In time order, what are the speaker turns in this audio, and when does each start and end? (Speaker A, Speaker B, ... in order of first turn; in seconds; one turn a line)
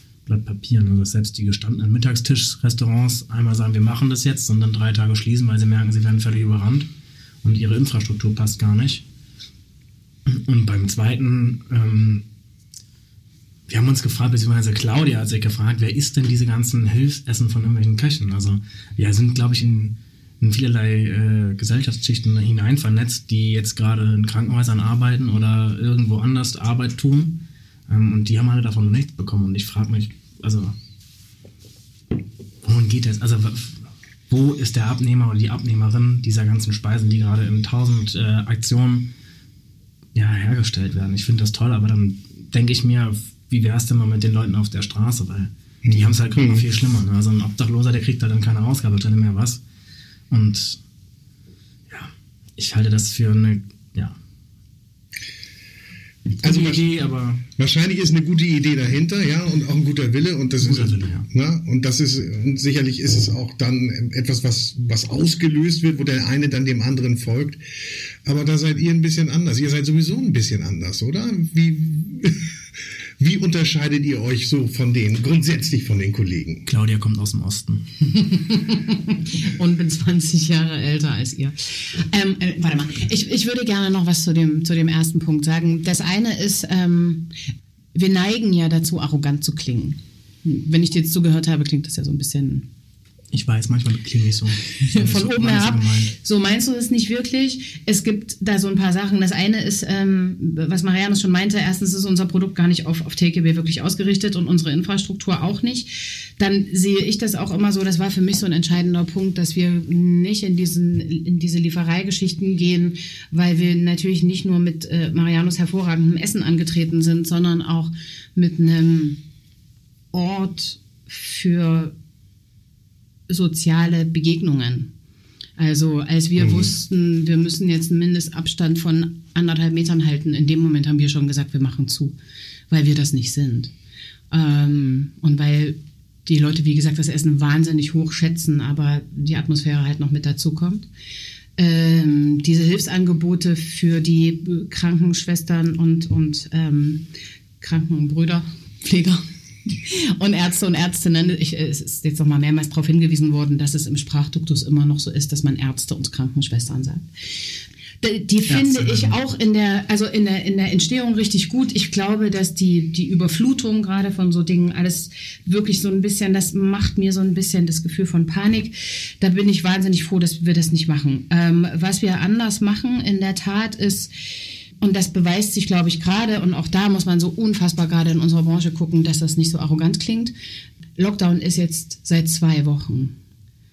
Speaker A: 0.3-6.9
Speaker A: 7.4-9.0
Speaker A: 10.3-12.2
Speaker A: 13.7-27.4
Speaker A: 27.9-30.8
Speaker A: 32.6-39.1
Speaker A: 40.1-49.6
Speaker B: 45.8-46.6
Speaker A: 50.3-50.8
Speaker A: 51.9-54.2
Speaker A: 56.4-57.4
Speaker B: 56.4-56.9
Speaker B: 57.6-67.6
Speaker A: 60.6-61.3
Speaker B: 68.2-72.6
Speaker B: 73.2-76.7
Speaker A: 76.7-77.9
Speaker C: 78.1-87.3
Speaker C: 87.9-92.7
Speaker A: 93.3-96.2
Speaker C: 94.8-119.2
Speaker C: 120.1-121.9
Speaker C: 123.3-124.9
Speaker C: 125.6-132.2
Speaker B: 126.4-126.7
Speaker C: 132.7-133.7
Speaker C: 134.3-140.9
Speaker C: 141.6-147.0
Speaker C: 147.6-174.1
Speaker A: 158.5-159.2
Speaker C: 174.8-180.3
Speaker C: 181.0-183.1